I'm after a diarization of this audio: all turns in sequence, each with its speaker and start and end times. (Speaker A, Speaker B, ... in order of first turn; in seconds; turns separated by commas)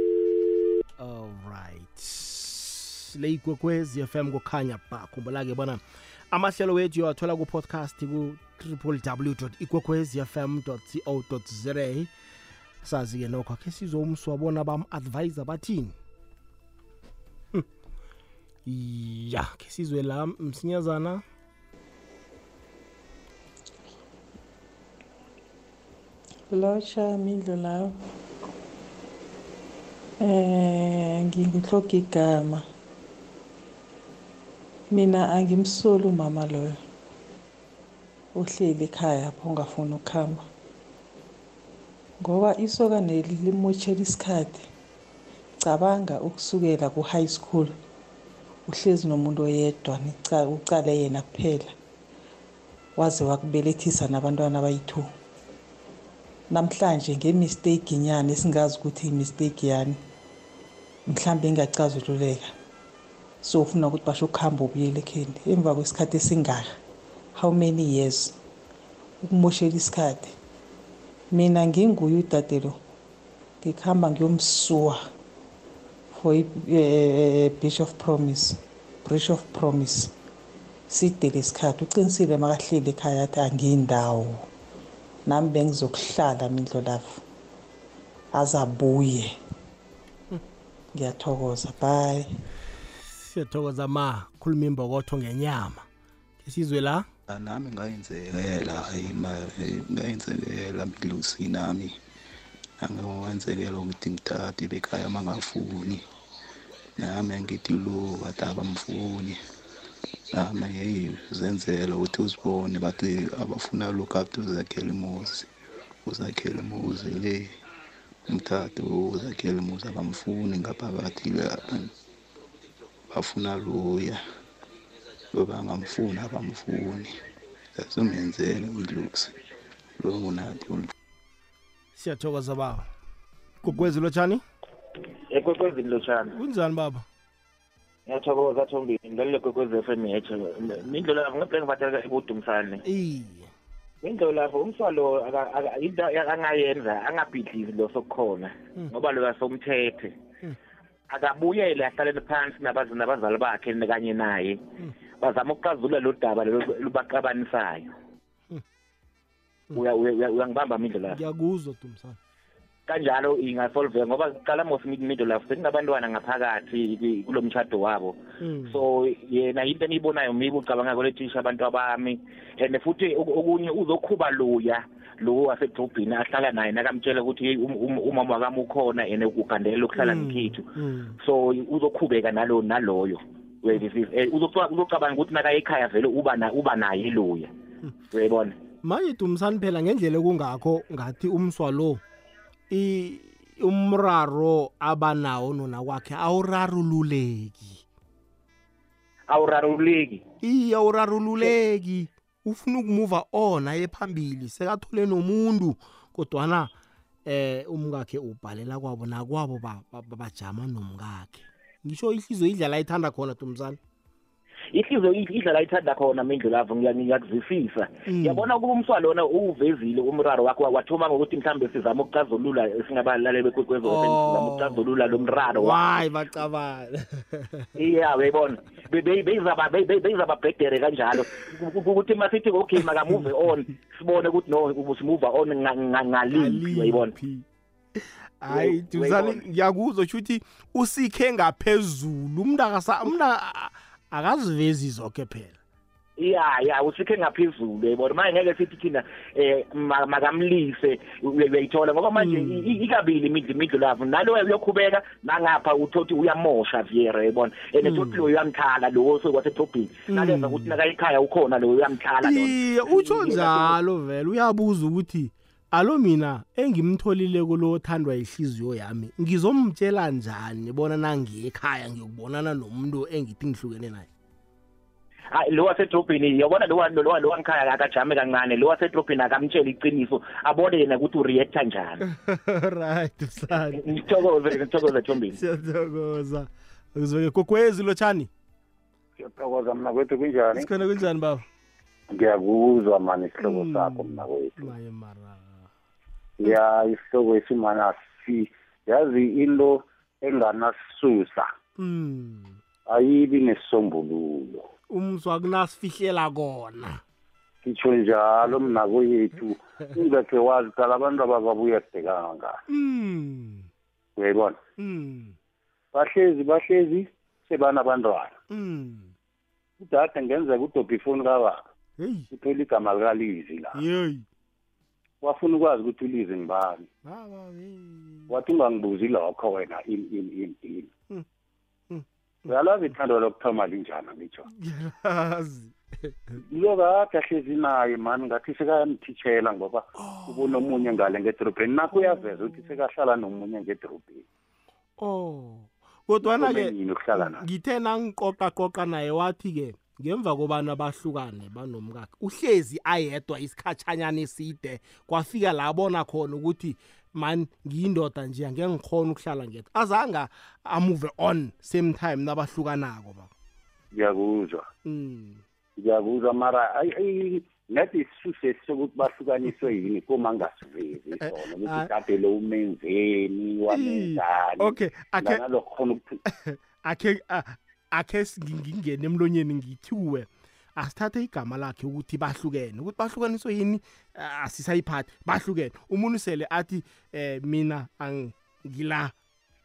Speaker A: 1.0-12.1, Speaker A: 12.8-15.9, Speaker A: 18.7-21.2, Speaker B: 26.5-28.1, Speaker B: 30.2-32.6, Speaker B: 34.9-36.8, Speaker B: 38.3-40.5, Speaker B: 42.2-44.7, Speaker B: 45.6-47.8, Speaker B: 48.7-51.7, Speaker B: 53.0-55.1, Speaker B: 56.5-60.0, Speaker B: 61.1-62.5, Speaker B: 63.4-66.7, Speaker B: 67.3-68.4, Speaker B: 69.2-70.3, Speaker B: 71.3-72.8, Speaker B: 73.6-75.1, Speaker B: 76.1-80.1, Speaker B: 80.9-84.5, Speaker B: 85.2-87.2, Speaker B: 88.3-89.4, Speaker B: 90.9-92.3, Speaker A: 93.1-95.8, Speaker A: 96.4-97.1, Speaker C: 97.3-102.0, Speaker C: 102.8-106.0, Speaker C: 107.0-109.4, Speaker C: 110.3-115.5, Speaker C: 116.1-117.5, Speaker C: 118.3-121.9, Speaker C: 123.1-124.2, Speaker C: 125.3-127.2, Speaker C: 127.8-129.3, Speaker C: 130.0-130.9, Speaker A: 132.0-132.9, Speaker A: 133.6-134.4, Speaker D: 135.3-136.4, Speaker A: 136.3-137.1, Speaker D: 138.1-142.8, Speaker A: 142.8-143.5, Speaker D: 144.0-150.2, Speaker D: 151.1-154.6, Speaker D: 155.2-157.9, Speaker D: 159.7-161.2, Speaker A: 161.1-162.2, Speaker D: 162.9-180.7, Speaker A: 168.4-168.8, Speaker A: 180.0-181.2, Speaker D: 181.2-187.5, Speaker D: 188.1-188.6, Speaker A: 188.8-192.0, Speaker A: 192.7-197.8, Speaker D: 199.3-200.2, Speaker A: 200.4-206.7, Speaker A: 207.3-213.8, Speaker D: 214.7-225.8, Speaker A: 218.1-218.5, Speaker A: 223.8-227.7, Speaker D: 227.8-237.1, Speaker A: 236.3-237.4, Speaker A: 238.0-245.6, Speaker E: 238.5-239.3, Speaker D: 246.2-263.8, Speaker A: 252.2-252.7, Speaker A: 257.8-258.3, Speaker A: 260.1-260.8, Speaker A: 262.2-274.1, Speaker D: 275.3-282.0, Speaker A: 282.1-284.0, Speaker D: 283.7-285.4, Speaker A: 285.3-288.3, Speaker E: 289.2-290.7, Speaker A: 290.5-291.5, Speaker E: 292.1-294.7, Speaker A: 293.4-295.7, Speaker E: 296.4-301.5, Speaker A: 301.8-302.6, Speaker E: 302.9-304.6, Speaker A: 304.9-307.0, Speaker E: 307.6-312.6, Speaker A: 312.7-313.7, Speaker E: 314.2-314.6, Speaker A: 314.8-315.4, Speaker E: 315.9-318.4, Speaker A: 318.5-319.1, Speaker E: 319.8-321.6, Speaker A: 322.0-322.3, Speaker E: 322.3-323.8, Speaker A: 323.7-324.2, Speaker E: 325.2-326.9, Speaker A: 327.0-328.3, Speaker E: 328.3-330.9, Speaker E: 332.5-334.4, Speaker A: 334.5-336.4, Speaker E: 336.5-344.2, Speaker A: 339.9-341.1, Speaker A: 341.9-342.8, Speaker A: 345.0-363.3, Speaker E: 346.2-347.4, Speaker E: 363.9-364.7, Speaker A: 364.9-365.4, Speaker E: 365.8-376.2, Speaker A: 371.2-371.9, Speaker A: 373.7-375.4, Speaker A: 376.3-389.1